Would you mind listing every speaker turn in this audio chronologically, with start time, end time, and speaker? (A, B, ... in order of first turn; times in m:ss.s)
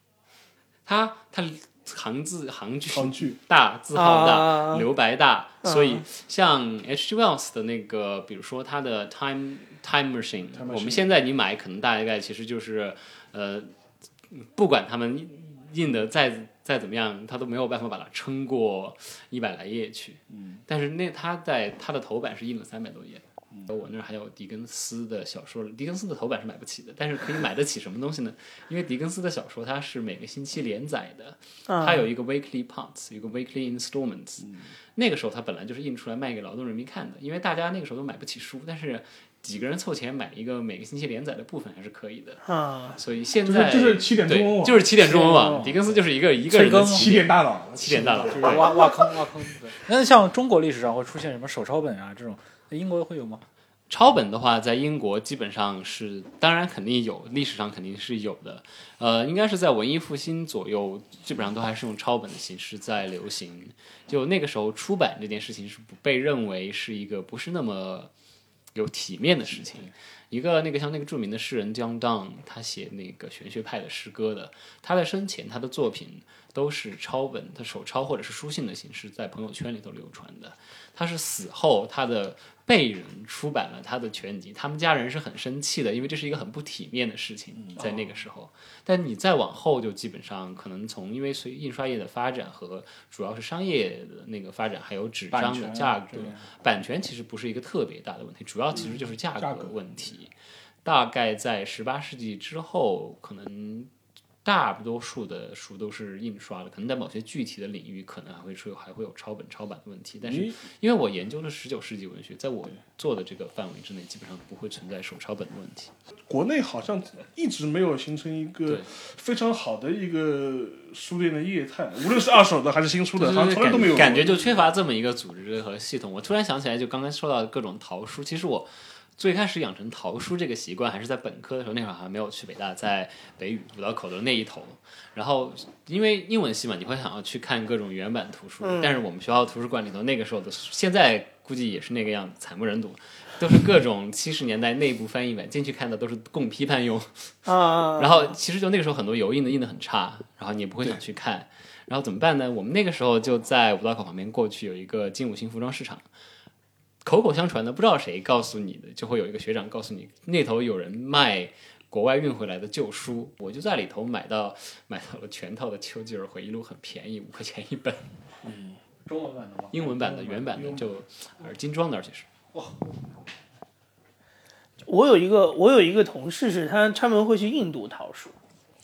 0:00.8-0:13.7 A
0:02.9-0:03.4 B
0:03.9-0:04.8 C
0:05.6-0:06.0 C
0:10.5-0:11.1 B
0:14.3-0:42.4 A
0:20.3-0:20.6 B
0:31.7-0:32.1 C
0:42.4-0:43.0 C
0:42.9-0:48.8 A
0:43.4-0:44.9 B
0:45.0-0:46.0 D
0:46.5-0:47.1 D
0:46.8-0:48.9 B
0:48.3-0:53.4 D
0:53.9-1:08.1 A
1:08.7-1:40.3 A
1:35.3-1:36.4 D
1:38.8-1:39.9 B
1:40.8-1:43.9 A
1:44.4-1:55.9 A
1:50.2-1:50.6 B
1:56.3-2:04.6 B
2:03.2-2:36.0 A
2:18.6-2:19.0 C
2:27.4-2:28.3 C
2:37.0-2:48.1 A
2:48.4-2:48.8 B
2:49.0-2:50.9 D
2:49.7-2:52.2 A
2:52.5-2:52.8 D
2:54.8-2:58.3 C